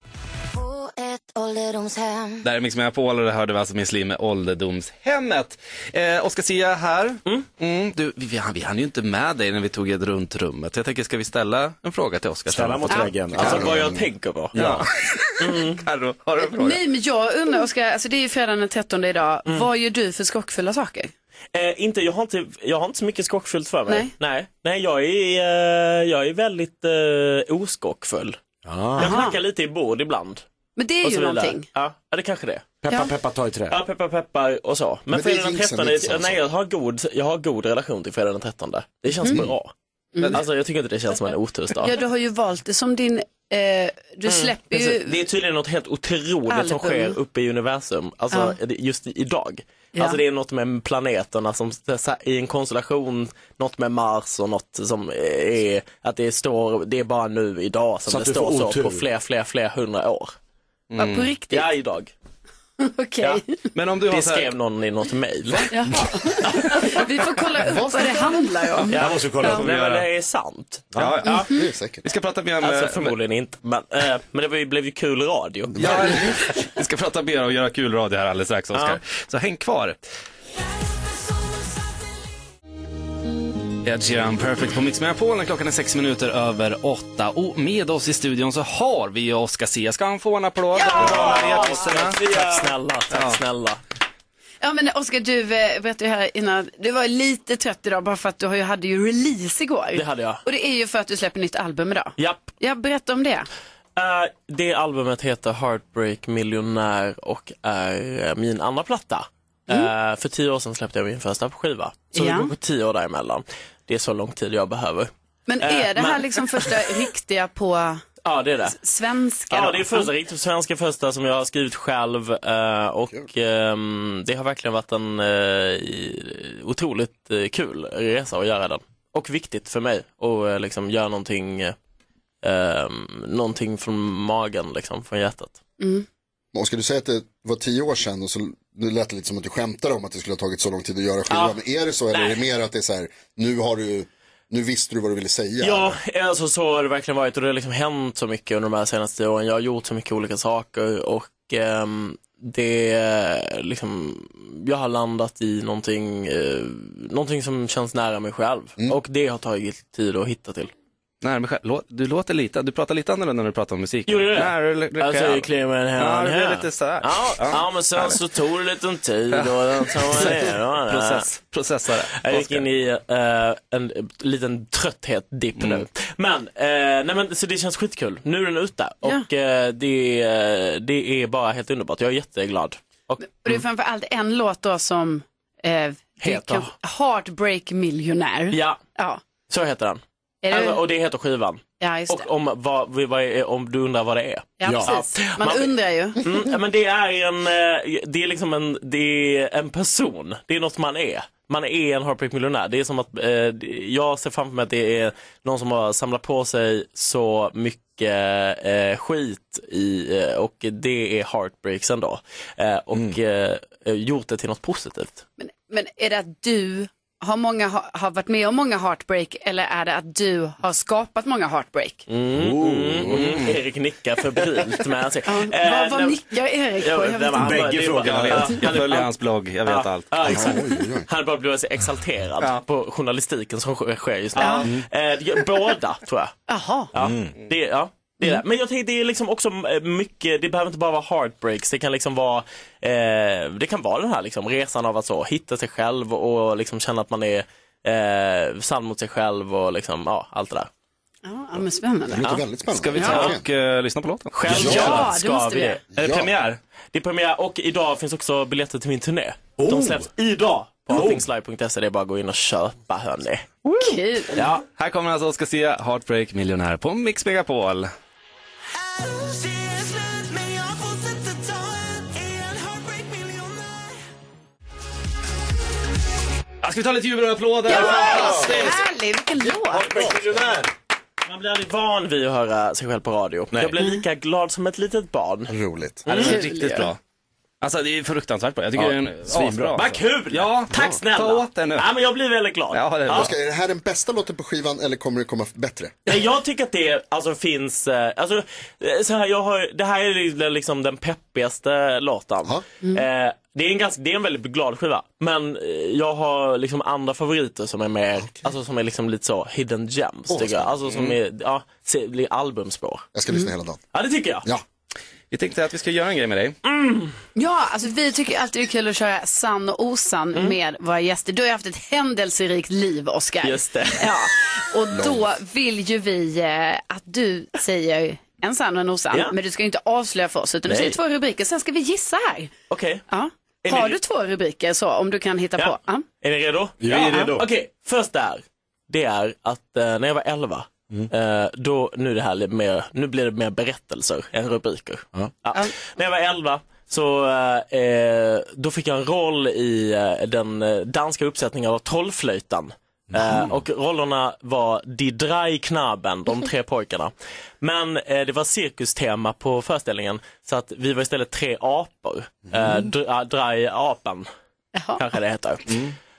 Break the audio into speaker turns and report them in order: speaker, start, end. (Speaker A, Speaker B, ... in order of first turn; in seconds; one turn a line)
Speaker A: 0.5-2.5
Speaker B: 2.4-13.1
Speaker C: 12.5-14.0
Speaker D: 13.3-14.6
Speaker E: 13.4-14.0
Speaker C: 14.5-14.9
Speaker B: 14.6-16.8
Speaker D: 15.4-15.8
Speaker F: 16.4-21.1
Speaker D: 21.5-28.4
Speaker C: 28.7-29.2
Speaker D: 29.0-30.4
Speaker F: 29.0-29.4
Speaker F: 30.8-31.7
Speaker D: 31.0-32.8
Speaker C: 32.8-33.8
Speaker D: 33.7-39.7
Speaker E: 35.1-36.4
Speaker F: 40.2-40.4
Speaker D: 40.3-41.9
Speaker F: 41.8-45.2
Speaker D: 44.3-60.4
Speaker F: 46.5-47.2
Speaker C: 58.1-59.0
Speaker B: 60.9-61.3
Speaker F: 61.0-61.7
Speaker D: 61.5-62.1
Speaker F: 62.8-63.5
Speaker B: 63.7-64.5
Speaker D: 64.1-66.0
Speaker F: 65.7-69.6
Speaker D: 66.5-66.8
Speaker E: 67.6-68.4
Speaker D: 68.9-71.5
Speaker C: 68.9-69.7
Speaker B: 69.5-70.1
Speaker C: 70.9-71.2
Speaker B: 71.0-71.5
Speaker F: 71.3-71.6
Speaker E: 71.5-72.0
Speaker B: 72.0-73.2
Speaker D: 72.6-76.3
Speaker E: 75.8-76.4
Speaker B: 75.8-80.0
Speaker D: 78.7-79.0
Speaker B: 83.8-92.5
Speaker D: 90.8-93.8
Speaker C: 91.0-91.7
Speaker B: 93.1-93.4
Speaker F: 94.6-103.5
Speaker D: 99.9-100.4
Speaker D: 102.2-102.5
Speaker D: 104.0-117.1
Speaker F: 112.1-112.5
Speaker F: 115.5-118.0
Speaker D: 118.2-118.8
Speaker F: 118.7-120.1
Speaker D: 119.5-131.8
Speaker D: 132.4-135.6
Speaker F: 135.8-136.1
Speaker E: 136.5-146.0
Speaker D: 141.3-141.6
Speaker D: 142.1-142.4
Speaker D: 145.6-160.7
Speaker B: 161.2-168.2
Speaker D: 164.1-171.3
Speaker B: 169.3-172.7
Speaker D: 172.1-183.6
Speaker B: 175.6-175.9
Speaker F: 183.3-189.2
Speaker D: 186.2-186.7
Speaker D: 188.5-188.8
Speaker D: 189.5-215.2
Speaker F: 190.4-190.8
Speaker F: 191.8-192.3
Speaker F: 194.6-196.5
Speaker C: 194.6-194.9
Speaker F: 215.4-222.1
Speaker D: 222.1-226.2
Speaker C: 222.3-223.4
Speaker F: 225.3-227.6
Speaker D: 226.8-229.1
Speaker C: 227.4-228.6
Speaker B: 228.0-230.4
Speaker D: 229.6-236.3
Speaker E: 230.2-231.1
Speaker F: 234.4-234.7
Speaker F: 236.5-236.9
Speaker D: 236.9-250.7
Speaker C: 236.9-237.4
Speaker F: 251.2-252.3
Speaker E: 252.1-253.4
Speaker B: 252.7-255.1
Speaker F: 252.9-253.3
Speaker D: 253.0-253.3
Speaker D: 254.3-255.8
Speaker E: 254.5-255.0
Speaker F: 254.7-255.8
Speaker E: 255.9-256.3
Speaker B: 255.9-256.6
Speaker D: 256.9-264.6
Speaker C: 259.6-260.1
Speaker C: 260.9-261.3
Speaker F: 263.8-264.4
Speaker B: 264.8-267.9
Speaker B: 276.6-278.9
Speaker F: 277.7-280.1
Speaker C: 277.7-278.7
Speaker C: 279.6-280.7
Speaker D: 281.2-285.5
Speaker C: 283.5-283.8
Speaker E: 285.5-286.1
Speaker B: 286.1-287.0
Speaker D: 286.1-286.4
Speaker F: 286.2-286.9
Speaker B: 287.6-291.9
Speaker C: 288.8-289.8
Speaker D: 289.7-293.3
Speaker B: 292.7-293.3
Speaker E: 293.1-295.9
Speaker D: 296.1-313.1
Speaker E: 308.2-308.5
Speaker B: 310.9-311.2
Speaker E: 313.1-313.8
Speaker D: 313.9-314.4
Speaker B: 315.3-316.6
Speaker D: 316.6-317.1
Speaker F: 317.4-332.5
Speaker D: 323.4-324.3
Speaker E: 324.9-325.3
Speaker D: 332.7-333.0
Speaker F: 333.1-336.1
Speaker D: 333.6-334.0
Speaker D: 335.6-364.3
Speaker C: 336.8-337.4
Speaker C: 353.1-353.6
Speaker F: 364.7-365.1
Speaker D: 365.0-365.8
Speaker C: 365.7-365.9